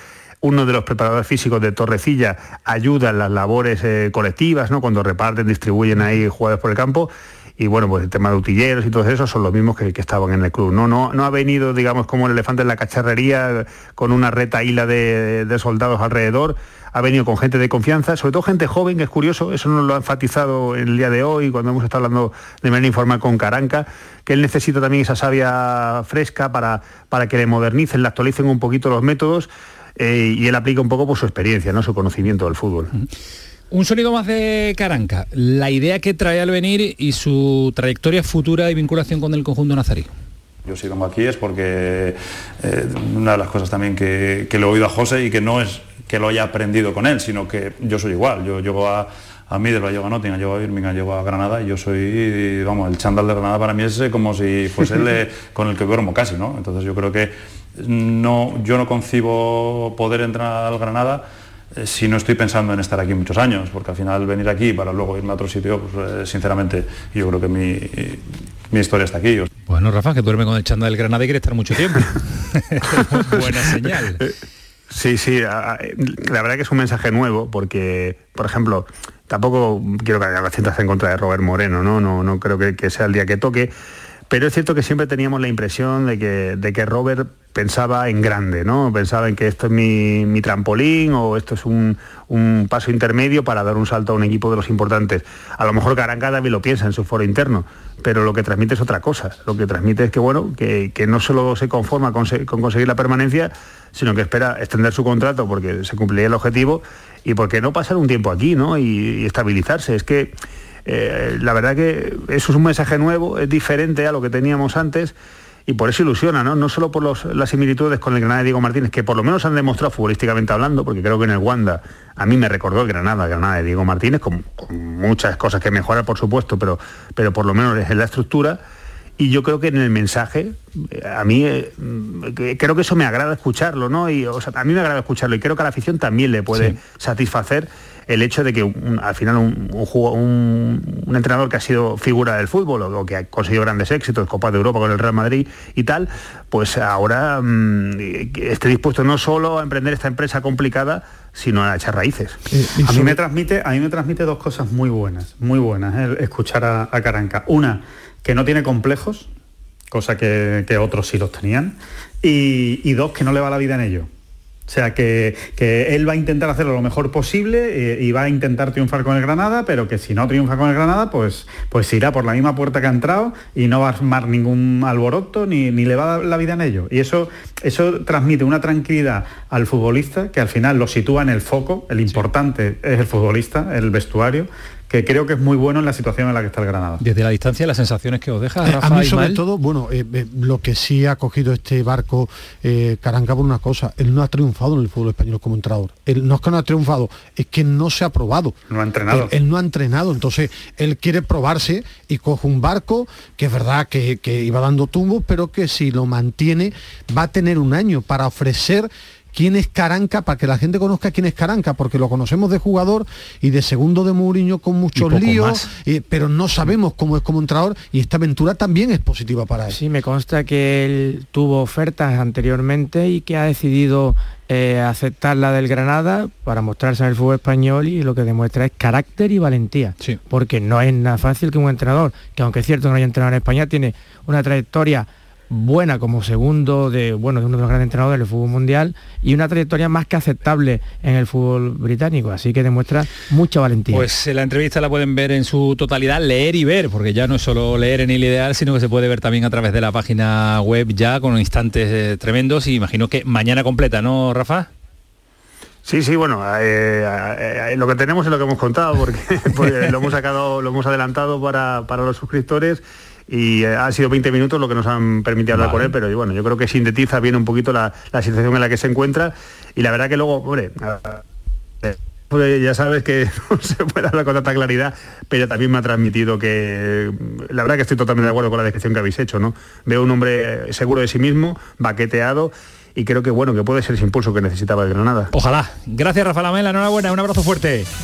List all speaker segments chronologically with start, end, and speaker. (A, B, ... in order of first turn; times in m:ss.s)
0:00.4-0:32.9 A
0:33.7-0:40.1 B
0:40.6-1:09.5 C
1:09.7-1:14.2 B
1:14.9-1:23.7 A
1:24.3-1:50.3 A
1:50.9-1:55.2 A
1:55.7-2:08.6 A
2:09.2-2:32.4 A
2:16.5-2:16.8 B
2:32.5-2:33.2 D
2:32.8-2:39.3 E
2:39.9-2:44.1 E
2:44.7-3:07.0 E
3:07.0-3:09.4 B
3:08.6-3:18.6 D
3:18.7-3:19.3 E
3:19.1-3:39.8 D
3:34.9-3:35.6 B
3:39.7-4:04.1 F
4:03.9-4:14.7 B
4:15.8-4:31.2 A
4:19.6-4:19.9 B
4:25.5-4:25.9 B
4:31.8-4:45.3 A
4:45.3-4:47.9 B